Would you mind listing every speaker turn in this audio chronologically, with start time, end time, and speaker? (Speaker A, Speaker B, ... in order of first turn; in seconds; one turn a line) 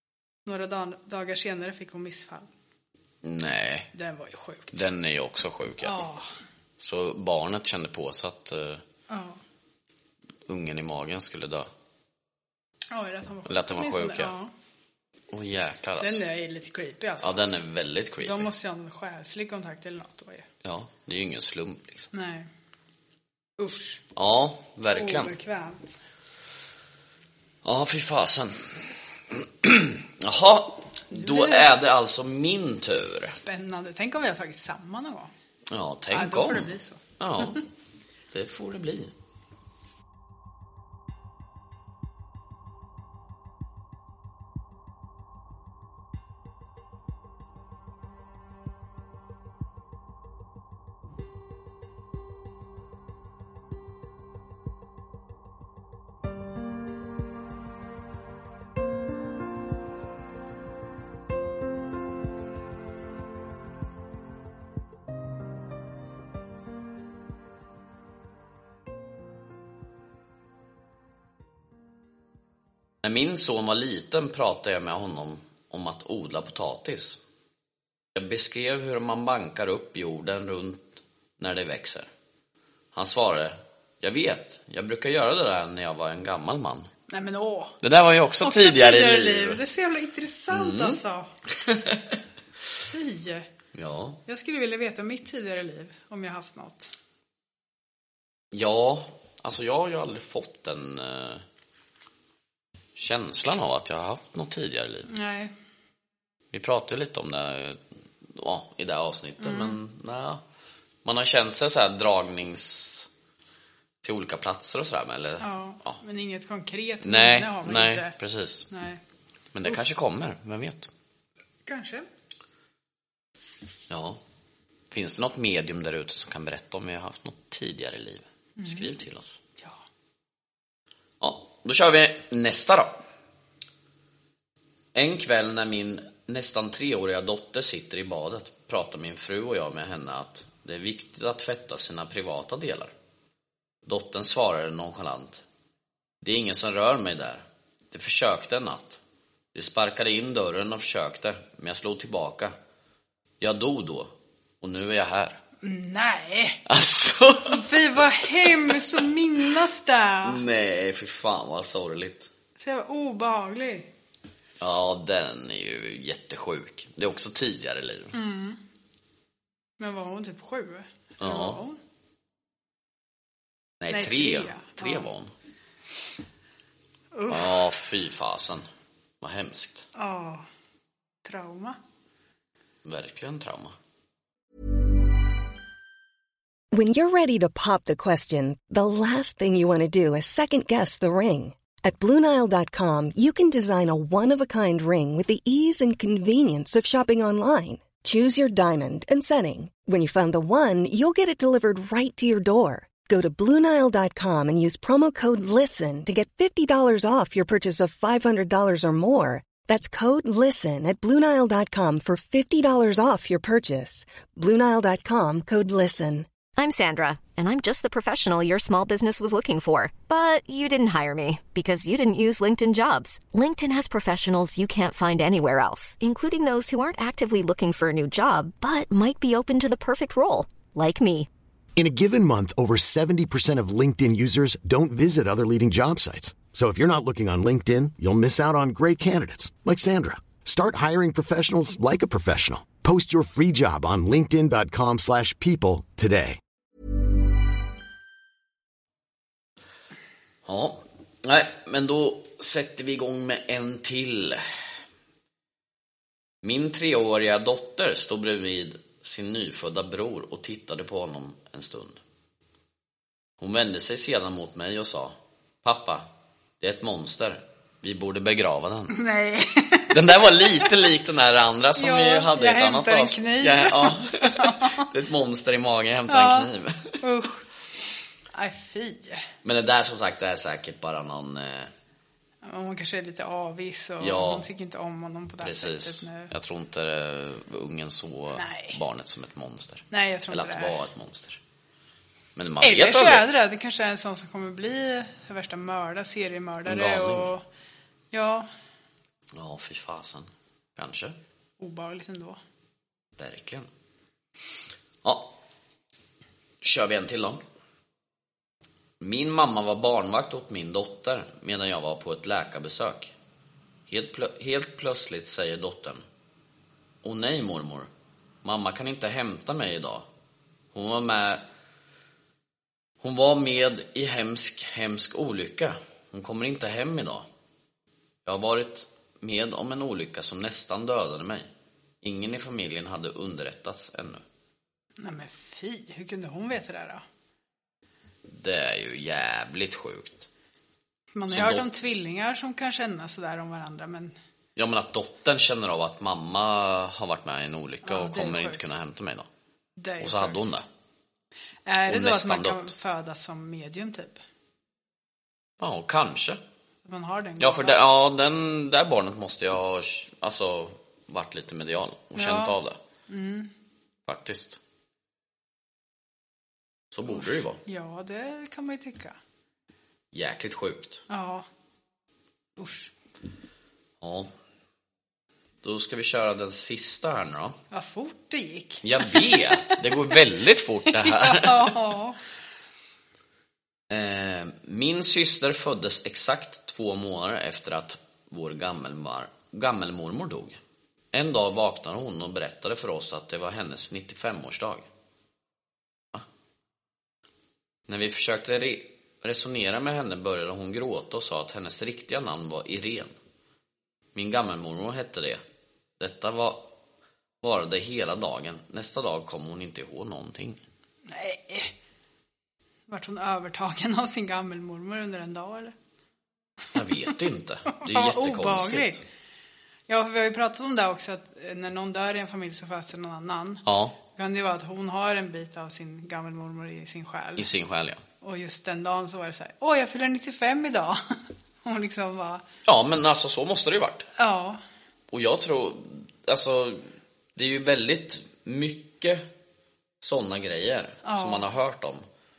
Speaker A: 0.4-2.5
Speaker B: 3.2-3.9
Speaker A: 3.9-4.8
Speaker B: 4.7-6.0
Speaker A: 5.8-6.2
Speaker B: 6.8-8.8
Speaker A: 9.1-9.4
Speaker B: 10.5-11.7
Speaker A: 12.9-14.5
Speaker B: 13.5-14.3
Speaker B: 15.3-16.2
Speaker A: 16.0-17.4
Speaker B: 17.2-18.5
Speaker A: 18.2-20.4
Speaker B: 20.6-22.1
Speaker A: 22.1-22.5
Speaker A: 23.6-24.0
Speaker B: 24.1-25.3
Speaker A: 24.9-25.9
Speaker B: 27.6-33.4
Speaker A: 31.1-31.7
Speaker A: 33.3-35.3
Speaker B: 35.7-37.6
Speaker A: 36.1-37.6
Speaker B: 38.3-39.1
Speaker B: 73.0-77.2
Speaker B: 78.1-82.1
Speaker B: 82.9-86.9
Speaker A: 87.1-87.8
Speaker B: 87.8-89.6
Speaker A: 88.4-91.3
Speaker B: 90.5-91.0
Speaker B: 91.6-92.0
Speaker A: 92.8-93.5
Speaker B: 93.7-94.2
Speaker A: 94.2-96.9
Speaker B: 98.5-101.4
Speaker B: 103.0-105.1
Speaker A: 105.1-105.5
Speaker B: 106.5-110.4
Speaker A: 109.4-109.8
Speaker B: 111.0-113.1
Speaker B: 114.0-116.0
Speaker A: 115.4-118.2
Speaker B: 117.0-118.7
Speaker A: 118.7-119.0
Speaker B: 119.5-120.9
Speaker A: 121.7-122.1
Speaker B: 123.9-124.2
Speaker B: 124.9-129.4
Speaker A: 128.6-128.9
Speaker B: 131.2-133.0
Speaker B: 134.9-142.9
Speaker B: 143.8-145.4
Speaker B: 146.2-149.0
Speaker B: 149.5-152.5
Speaker B: 153.4-155.4
Speaker A: 155.6-156.6
Speaker B: 156.7-157.7
Speaker A: 157.4-160.4
Speaker B: 160.2-162.3
Speaker A: 162.6-163.9
Speaker B: 164.6-168.1
Speaker A: 168.1-168.6
Speaker A: 169.8-171.8
Speaker B: 171.2-171.6
Speaker B: 173.8-175.3
Speaker A: 173.9-175.1
Speaker A: 177.1-177.6
Speaker B: 177.3-178.6
Speaker B: 179.2-179.8
Speaker A: 179.9-180.4
Speaker A: 181.2-181.8
Speaker B: 182.8-183.7
Speaker C: 186.7-216.3
Speaker D: 216.6-231.3
Speaker E: 231.8-246.4
Speaker B: 250.4-254.4
Speaker B: 256.4-262.0
Speaker B: 263.4-266.1
Speaker B: 266.6-269.0
Speaker A: 268.9-270.7
Speaker B: 269.9-277.0
Speaker A: 271.8-274.9
Speaker A: 276.1-277.4
Speaker A: 278.3-279.2
Speaker B: 279.4-281.7
Speaker A: 282.4-286.3
Speaker B: 284.0-284.5
Speaker B: 285.4-291.4
Speaker A: 288.3-288.8
Speaker A: 289.9-290.8
Speaker B: 292.4-293.3
Speaker A: 292.6-297.4
Speaker B: 296.6-297.3
Speaker A: 298.1-298.5
Speaker B: 299.3-301.1
Speaker A: 301.6-302.4
Speaker B: 303.2-303.7
Speaker B: 305.0-305.3
Speaker B: 306.6-307.4
Speaker B: 309.0-313.1
Speaker B: 313.9-316.0
Speaker B: 317.0-317.9
Speaker B: 318.4-320.1
Speaker B: 320.7-321.4
Speaker B: 323.0-327.3
Speaker B: 328.2-331.5
Speaker B: 332.0-334.2
Speaker A: 335.0-337.0
Speaker B: 338.3-340.3
Speaker A: 341.1-344.1
Speaker B: 341.3-341.7
Speaker B: 344.6-349.3
Speaker A: 347.8-348.6
Speaker A: 349.8-350.5
Speaker B: 350.0-350.6
Speaker A: 351.6-354.2
Speaker B: 351.9-352.7
Speaker B: 355.6-356.4
Speaker A: 356.8-357.8
Speaker B: 357.4-362.8
Speaker A: 362.1-362.6
Speaker A: 363.1-363.5
Speaker B: 364.1-364.6
Speaker B: 366.9-367.6
Speaker A: 367.1-369.2
Speaker B: 370.1-371.0
Speaker A: 371.1-371.4
Speaker A: 372.6-372.9
Speaker B: 374.0-374.3
Speaker B: 375.6-377.6
Speaker A: 377.7-379.8
Speaker B: 378.8-381.8
Speaker A: 380.9-382.2
Speaker B: 383.9-390.6
Speaker B: 391.1-394.9
Speaker B: 397.9-403.1
Speaker B: 404.1-405.4
Speaker B: 406.0-406.6
Speaker B: 407.4-410.6
Speaker A: 411.1-411.7
Speaker A: 412.9-415.7
Speaker B: 416.7-419.0
Speaker A: 417.7-419.0
Speaker A: 419.9-427.5
Speaker B: 423.6-423.9
Speaker B: 427.4-428.0
Speaker A: 428.2-432.4
Speaker B: 432.6-434.1
Speaker A: 434.2-434.6
Speaker B: 435.1-436.8
Speaker B: 437.4-439.3
Speaker B: 440.0-442.0
Speaker A: 441.0-441.5